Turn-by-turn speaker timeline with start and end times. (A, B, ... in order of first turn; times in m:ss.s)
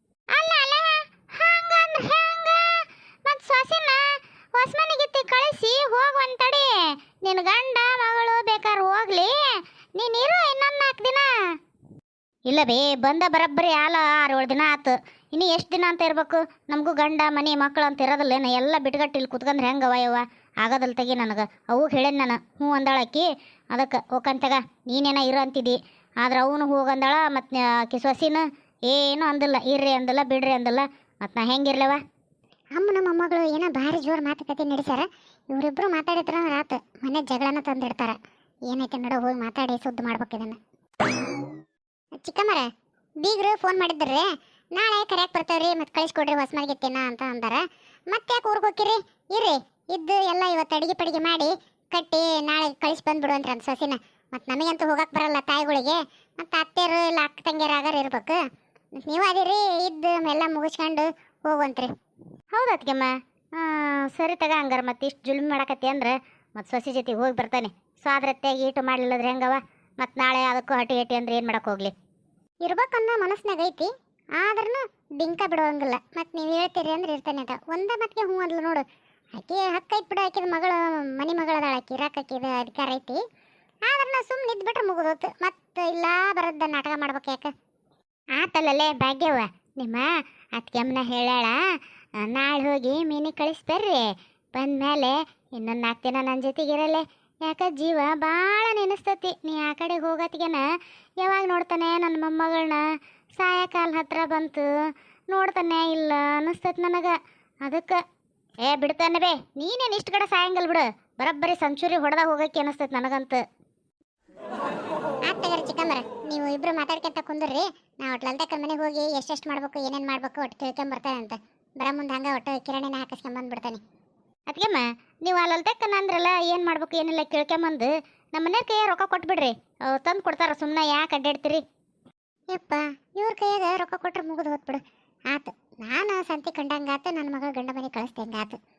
0:00.4-0:11.3 A
0:00.5-0:00.9 B
0:12.5-0:32.0 A
0:32.8-0:38.2 B
0:38.7-0:40.6 B
0:42.2-0:42.7 B
0:43.2-0:58.4 B
0:59.0-1:01.9 B
1:02.6-1:11.9 A
1:12.6-1:18.8 B
1:19.4-1:23.2 B
1:23.9-1:27.5 B
1:28.4-1:31.6 A
1:32.2-1:40.6 A
1:41.2-1:42.8 A
1:43.4-1:44.7 A
1:45.3-1:48.0 A
1:48.6-1:53.4 A
1:55.3-2:03.8 B
2:04.5-2:11.6 A
2:12.5-2:18.6 B